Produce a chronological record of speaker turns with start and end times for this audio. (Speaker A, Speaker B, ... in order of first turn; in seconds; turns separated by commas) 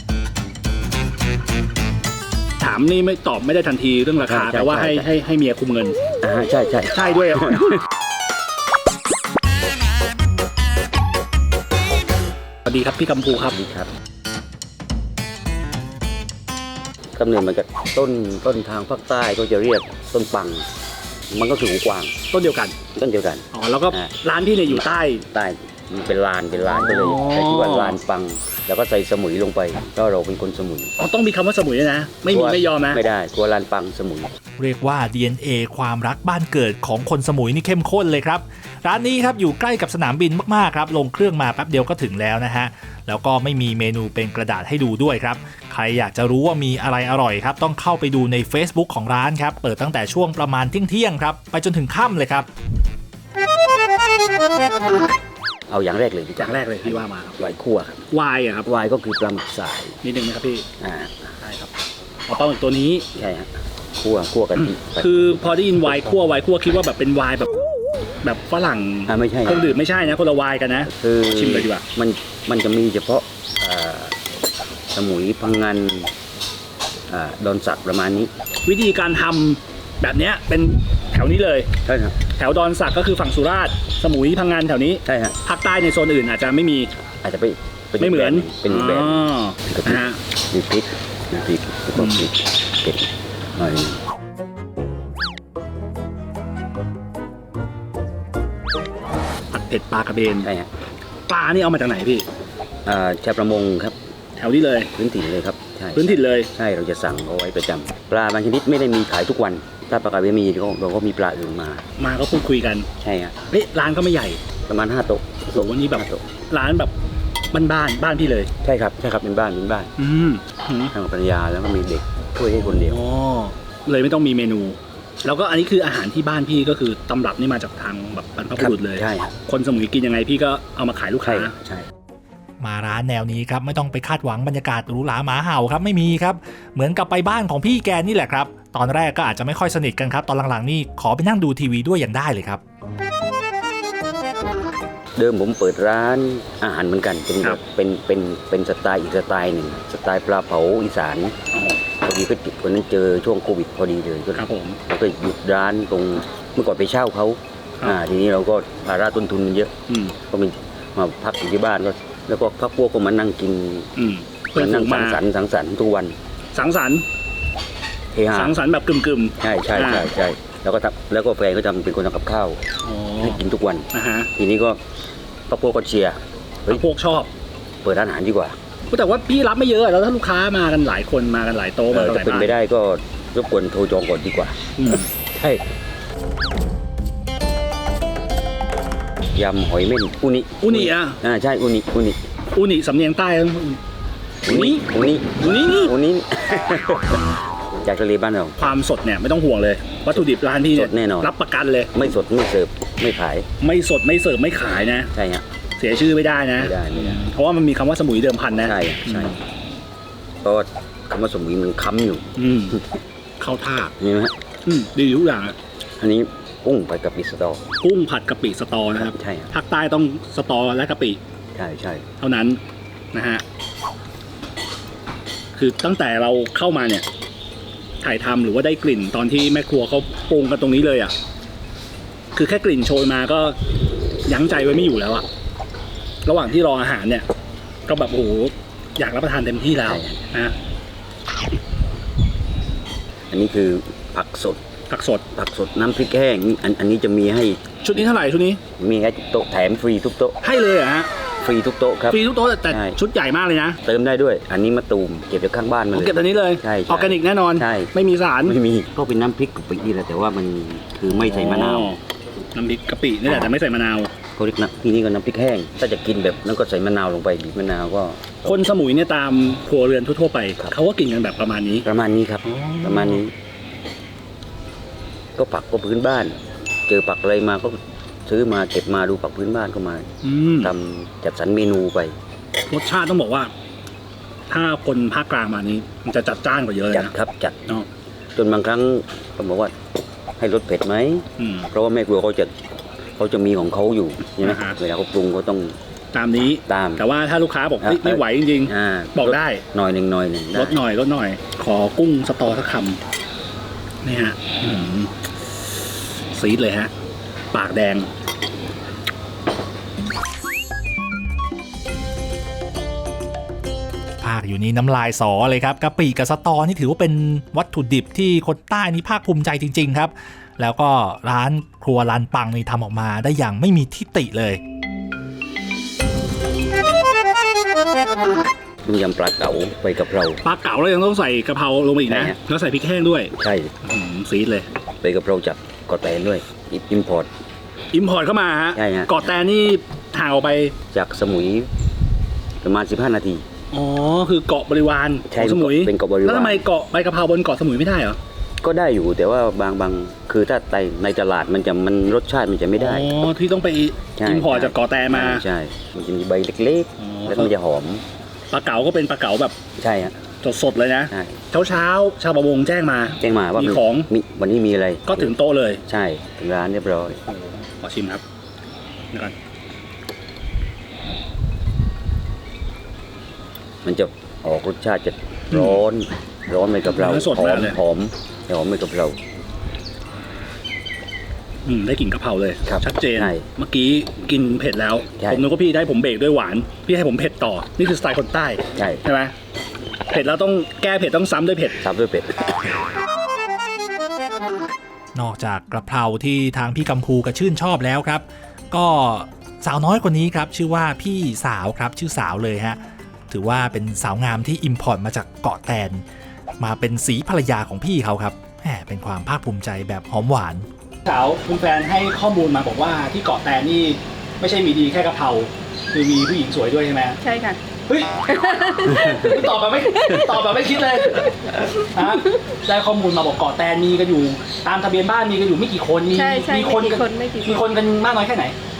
Speaker A: 2.6-6.0, Speaker B: 4.2-5.0, Speaker B: 6.2-7.8, Speaker A: 6.9-7.8, Speaker A: 12.7-13.5, Speaker B: 13.4-13.9, Speaker B: 17.1-20.7, Speaker B: 21.3-22.1, Speaker A: 22.3-22.8, Speaker B: 22.9-24.1, Speaker A: 23.5-25.2, Speaker B: 24.7-30.9, Speaker A: 26.6-28.0, Speaker A: 31.0-33.0, Speaker B: 32.3-34.3, Speaker C: 34.6-52.5, Speaker B: 55.7-58.0, Speaker A: 56.4-57.4, Speaker A: 58.1-58.6, Speaker B: 58.6-60.0, Speaker A: 60.0-60.6, Speaker B: 60.8-61.3, Speaker A: 61.4-61.7, Speaker A: 62.3-63.0, Speaker B: 63.1-65.4, Speaker A: 64.6-67.5, Speaker A: 68.2-71.8, Speaker B: 69.1-69.7, Speaker B: 70.8-74.2, Speaker B: 74.9-76.1, Speaker B: 77.1-78.3, Speaker A: 78.7-81.7, Speaker B: 81.8-82.2, Speaker A: 82.3-86.9, Speaker B: 85.0-85.4, Speaker B: 87.2-94.0, Speaker A: 88.0-90.2, Speaker A: 92.0-92.3, Speaker A: 99.5-100.5, Speaker B: 100.4-100.7, Speaker A: 101.3-102.2, Speaker B: 102.8-104.0, Speaker A: 104.4-104.9, Speaker B: 104.9-111.8, Speaker A: 105.9-106.5, Speaker A: 112.0-112.9, Speaker B: 113.0-113.3, Speaker A: 113.5-114.4, Speaker B: 114.7-116.2, Speaker A: 115.5-116.9, Speaker A: 117.5-118.5, Speaker B: 118.6-119.9, Speaker A: 120.0-120.9, Speaker B: 120.9-123.0, Speaker A: 122.6-131.5, Speaker B: 128.6-129.3, Speaker B: 131.2-131.8, Speaker C: 132.6-142.6, Speaker B: 145.2-151.3, Speaker B: 152.0-159.7, Speaker A: 154.3-154.8, Speaker A: 159.9-160.1, Speaker B: 160.3-163.9, Speaker A: 164.0-165.2, Speaker B: 164.5-166.2, Speaker A: 166.5-167.0, Speaker B: 168.1-168.5, Speaker A: 168.3-170.1, Speaker B: 169.4-172.6, Speaker A: 172.8-173.4, Speaker B: 173.2-174.8, Speaker A: 173.9-174.3, Speaker B: 175.5-176.8, Speaker A: 176.7-177.3, Speaker B: 177.8-178.6, Speaker A: 178.9-182.5, Speaker B: 181.9-185.6, Speaker A: 184.8-185.1, Speaker B: 189.3-192.2, Speaker A: 190.6-191.2, Speaker A: 192.5-193.8, Speaker B: 194.4-198.6, Speaker A: 194.4-195.9, Speaker A: 198.6-201.9, Speaker B: 200.7-201.3, Speaker B: 201.9-203.5, Speaker A: 203.6-205.1, Speaker B: 205.1-205.4, Speaker A: 205.8-209.4, Speaker B: 206.6-207.2, Speaker B: 208.6-209.3, Speaker B: 210.4-212.8, Speaker A: 212.4-212.8, Speaker A: 213.4-213.9, Speaker B: 214.0-214.3, Speaker A: 214.7-215.6, Speaker B: 216.0-217.6, Speaker A: 217.8-221.2, Speaker B: 218.9-219.5, Speaker B: 221.5-222.1, Speaker A: 222.2-222.6, Speaker A: 223.1-223.4, Speaker A: 225.6-227.0, Speaker A: 228.0-231.1, Speaker A: 232.3-233.6, Speaker A: 234.3-235.2, Speaker A: 236.2-237.2, Speaker A: 237.9-240.5, Speaker B: 239.8-240.2, Speaker B: 243.3-244.6, Speaker A: 244.9-245.2, Speaker B: 245.3-247.6, Speaker A: 247.8-248.6, Speaker B: 248.8-250.4, Speaker A: 250.4-251.1, Speaker B: 251.4-253.0, Speaker A: 252.1-253.8, Speaker B: 253.8-257.9, Speaker A: 255.9-258.6, Speaker B: 258.4-261.9, Speaker A: 261.1-262.0, Speaker A: 262.5-264.1, Speaker B: 263.2-263.5, Speaker B: 264.4-268.6, Speaker A: 268.4-271.8, Speaker B: 271.8-273.3, Speaker A: 272.4-273.2, Speaker B: 275.4-280.1, Speaker A: 280.2-280.7, Speaker B: 280.6-282.1, Speaker A: 282.7-283.5, Speaker A: 284.5-287.1, Speaker B: 286.9-287.6, Speaker B: 288.3-289.7, Speaker B: 290.4-292.5, Speaker A: 291.4-291.7, Speaker B: 293.1-295.8, Speaker A: 294.4-294.8, Speaker A: 296.1-299.6, Speaker B: 296.7-297.0, Speaker B: 297.8-300.8, Speaker A: 300.5-303.0, Speaker A: 304.0-305.1, Speaker A: 306.3-306.9, Speaker A: 307.5-308.1, Speaker C: 314.2-324.6, Speaker B: 328.8-330.4, Speaker A: 330.4-333.3, Speaker B: 332.1-332.4, Speaker B: 333.3-333.7, Speaker A: 333.8-334.7, Speaker B: 335.0-337.3, Speaker A: 337.9-340.7, Speaker B: 338.7-339.2, Speaker B: 340.9-341.7, Speaker B: 342.6-343.4, Speaker A: 343.7-348.2, Speaker B: 345.3-346.6, Speaker B: 348.6-353.1, Speaker A: 352.8-355.4, Speaker B: 354.1-358.0, Speaker A: 357.0-357.5, Speaker A: 358.5-359.6, Speaker B: 359.8-360.1, Speaker A: 360.4-364.1, Speaker B: 361.1-361.4, Speaker B: 363.2-365.3, Speaker A: 365.1-365.8, Speaker B: 365.9-367.2, Speaker A: 367.3-368.2, Speaker B: 373.8-379.2, Speaker A: 375.5-375.8, Speaker A: 376.9-377.8, Speaker A: 381.6-389.3, Speaker B: 382.6-383.4, Speaker B: 385.2-385.4, Speaker B: 388.7-389.0, Speaker A: 390.1-391.8, Speaker B: 391.8-392.4, Speaker C: 395.1-402.8, Speaker C: 403.3-406.0, Speaker C: 406.6-410.7, Speaker A: 411.0-417.2, Speaker D: 417.2-417.6, Speaker A: 417.9-418.1, Speaker D: 418.2-420.3, Speaker A: 418.9-428.5, Speaker D: 421.1-421.6, Speaker D: 426.1-427.6